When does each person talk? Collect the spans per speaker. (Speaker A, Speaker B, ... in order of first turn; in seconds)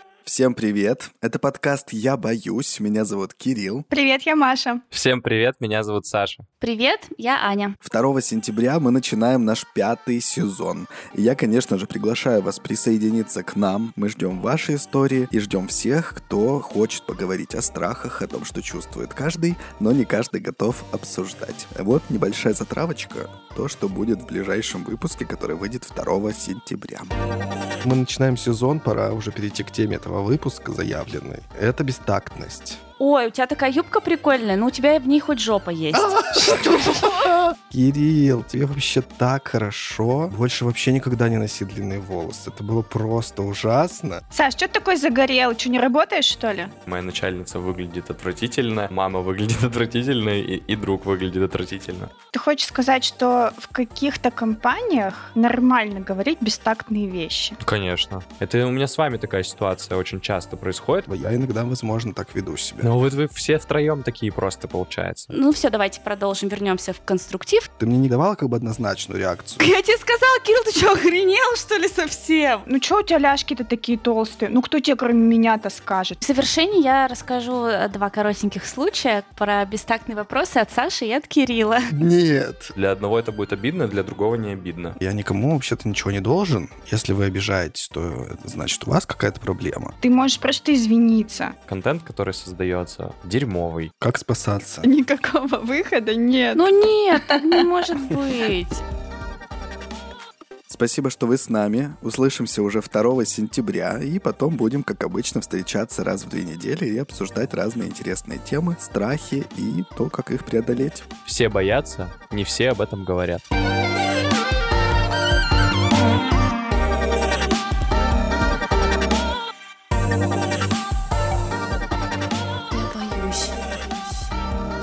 Speaker A: 0.2-3.9, 7.8-27.1, 100.7-111.0
Speaker B: 3.9-4.8, 44.3-46.7, 52.3-57.6, 72.7-76.2, 90.0-91.5, 94.8-97.7
Speaker C: 4.9-6.4, 46.9-52.1, 57.6-61.1, 62.8-65.3, 82.7-85.0, 91.7-93.9, 111.2-113.4
Speaker D: 6.6-7.7, 33.0-37.3, 65.3-67.7, 69.6-72.7, 76.2-81.9, 96.5-98.8, 122.7-124.3
Speaker E: 27.8-32.8, 35.9-44.2, 61.1-62.9, 67.8-69.7, 81.9-82.7, 85.0-89.9, 94.0-94.9